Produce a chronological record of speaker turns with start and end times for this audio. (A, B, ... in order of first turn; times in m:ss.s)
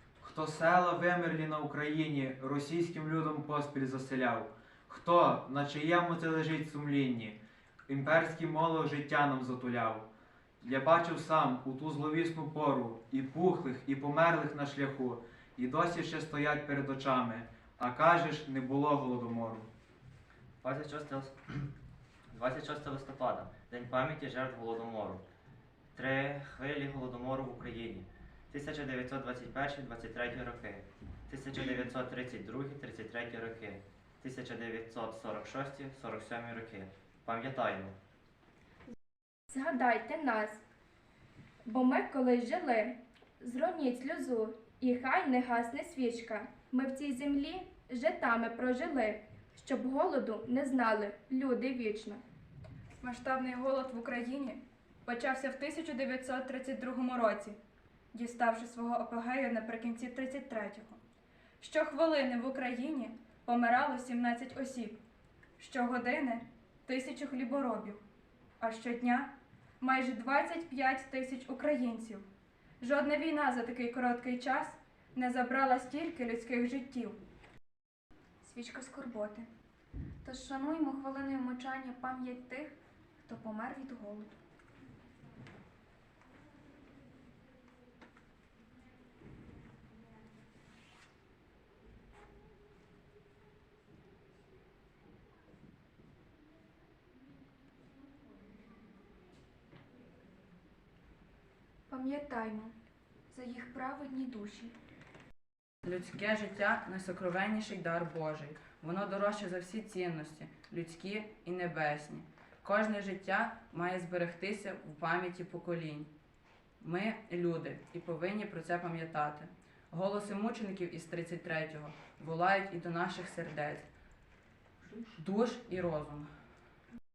0:00.2-0:10.0 A
0:10.6-0:19.7 A
0:20.6-0:21.6 B
0:22.3-0:25.2 B
0:25.9-0:37.9 B
0:39.5-0:40.6 C
0:41.6-0:52.2 C
0:53.0-0:57.6 D
0:58.1-1:01.0 D
1:01.6-1:05.0 D
1:05.6-1:08.0 D
1:08.6-1:09.3 D
1:09.8-1:12.2 D
1:12.8-1:17.2 D
1:18.4-1:19.5 E
1:20.2-1:22.7 E
1:23.2-1:24.3 E
1:41.9-1:42.7 E
1:43.3-1:44.7 E
1:45.8-1:56.1 F
1:56.8-2:03.8 F
2:04.9-2:06.3 F